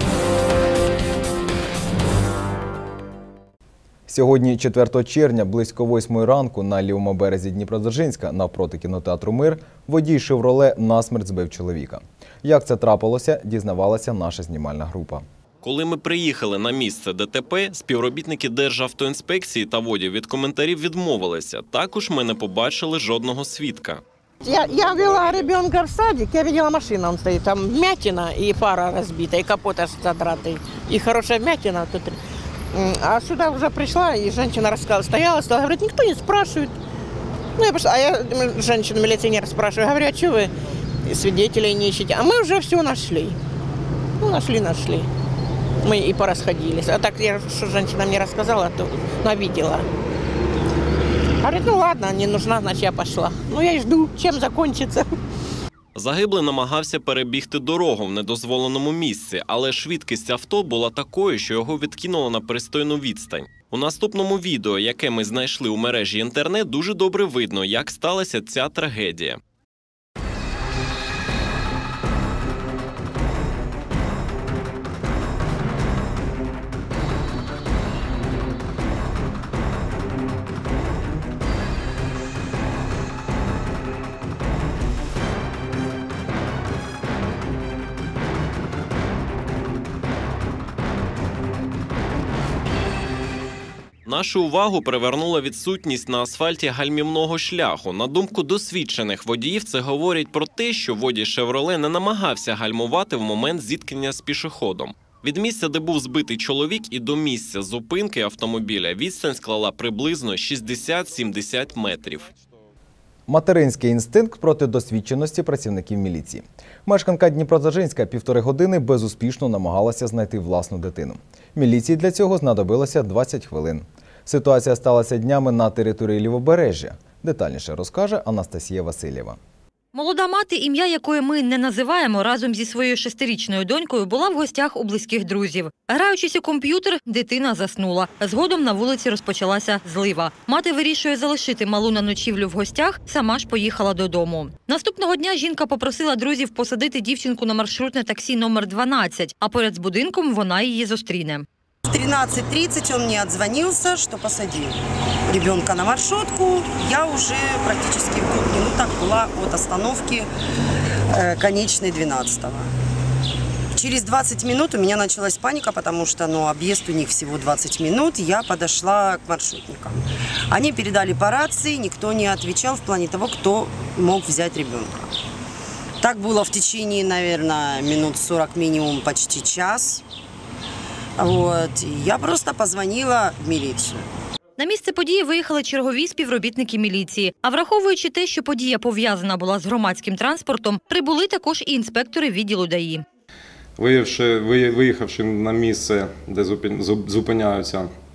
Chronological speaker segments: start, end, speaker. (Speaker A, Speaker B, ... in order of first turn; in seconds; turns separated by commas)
Speaker A: 4.1-15.2, Speaker B: 15.6-24.0, Speaker C: 24.4-32.2, Speaker C: 32.7-36.7, Speaker C: 37.6-40.5, Speaker C: 41.0-43.4, Speaker C: 44.2-45.1, Speaker C: 45.8-49.9, Speaker C: 51.4-55.1, Speaker B: 55.9-69.4, Speaker B: 94.0-112.3, Speaker A: 113.3-129.4, Speaker D: 129.9-151.4, Speaker E: 151.8-154.8, Speaker E: 155.3-160.3, Speaker E: 161.1-162.7, Speaker E: 163.7-169.9, Speaker E: 170.5-175.1, Speaker E: 176.0-180.0, Speaker E: 181.2-184.1, Speaker D: 184.6-193.0, Speaker F: 193.8-197.9